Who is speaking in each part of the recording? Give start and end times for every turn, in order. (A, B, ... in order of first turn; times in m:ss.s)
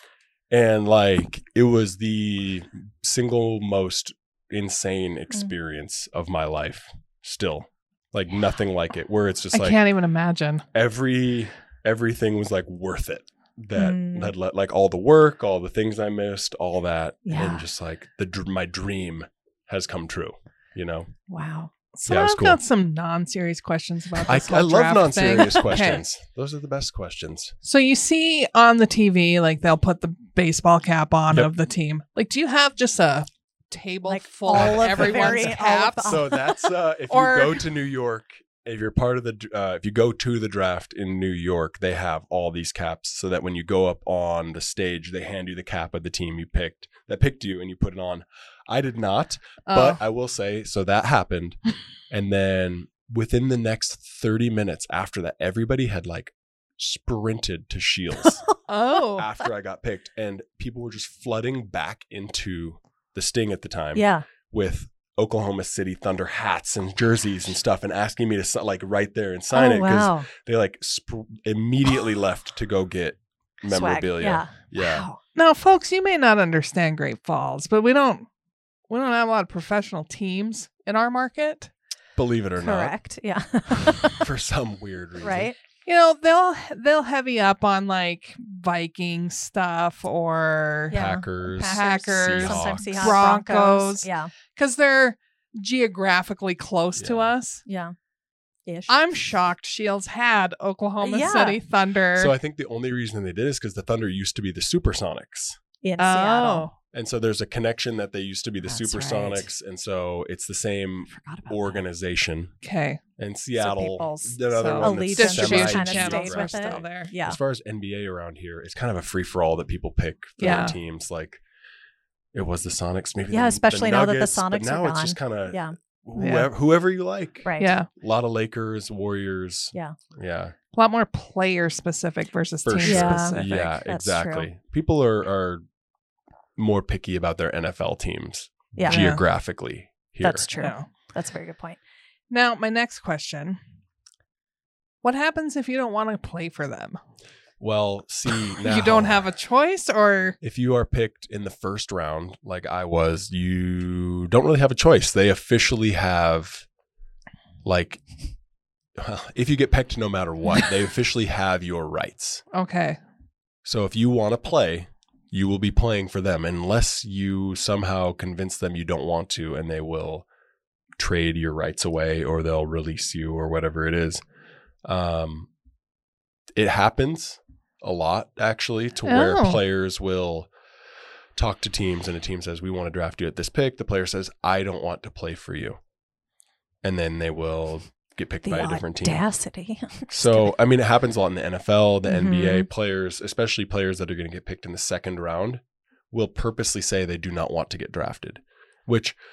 0:00.5-0:09.8 A
0:09.5-0:10.6 B
0:10.7-0:21.1 A
0:13.8-0:14.3 C
0:17.2-0:17.6 C
0:21.3-0:21.7 C
0:22.0-0:26.0 B
0:22.1-0:22.6 A
0:24.3-0:27.5 A
0:27.6-0:36.4 B
0:34.1-0:36.3 C
0:34.5-0:35.5 A
0:36.0-0:51.6 A
0:37.1-0:37.6 B
0:49.7-0:50.0 B
0:52.1-0:58.4 A
0:58.7-0:59.3 B
0:59.1-1:15.1 A
1:04.0-1:04.3 C
1:09.5-1:10.3 C
1:13.6-1:15.2 C
1:15.4-1:18.3 B
1:18.9-1:21.7 B
1:22.2-1:23.0 A
1:22.6-1:24.3 C
1:24.0-1:25.5 A
1:25.2-1:25.6 C
1:25.9-1:31.0 B
1:30.9-1:34.3 C
1:30.9-1:33.2 A
1:31.5-1:37.6 B
1:37.0-1:37.3 A
1:37.7-1:37.9 C
1:38.7-1:39.0 C
1:38.9-1:42.3 B
1:41.0-1:41.6 C
1:42.1-1:45.6 A
1:45.8-1:46.7 C
1:46.0-1:46.8 B
1:46.9-1:52.5 A
1:48.7-1:49.5 C
1:51.1-1:51.8 C
1:52.6-1:53.0 B
1:53.2-2:01.4 A
1:53.6-1:57.4 C
1:54.5-1:57.1 B
2:00.4-2:00.8 B
2:00.4-2:00.7 C
2:02.3-2:10.6 A
2:03.3-2:05.8 C
2:06.2-2:06.5 B
2:07.4-2:07.8 C
2:07.6-2:07.9 B
2:10.7-2:13.6 B
2:12.6-2:15.6 A
2:12.8-2:14.5 C
2:16.6-2:20.5 A
2:18.8-2:19.0 C
2:18.9-2:19.2 B
2:20.2-2:21.8 C
2:20.6-2:20.9 B
2:22.3-2:23.6 B
2:25.0-2:27.0 B
2:27.6-2:29.3 A
2:28.4-2:30.4 B
2:30.4-2:36.6 A
2:37.6-2:38.0 A
2:39.0-2:42.4 A
2:42.5-2:43.0 B
2:43.6-2:50.3 A
2:51.0-2:54.2 A
2:54.8-2:55.5 A
2:56.6-3:00.5 A
2:59.0-2:59.6 B
3:01.4-3:05.8 A
3:06.8-3:09.2 A
3:08.4-3:10.5 C
3:10.1-3:19.2 A
3:12.1-3:12.7 C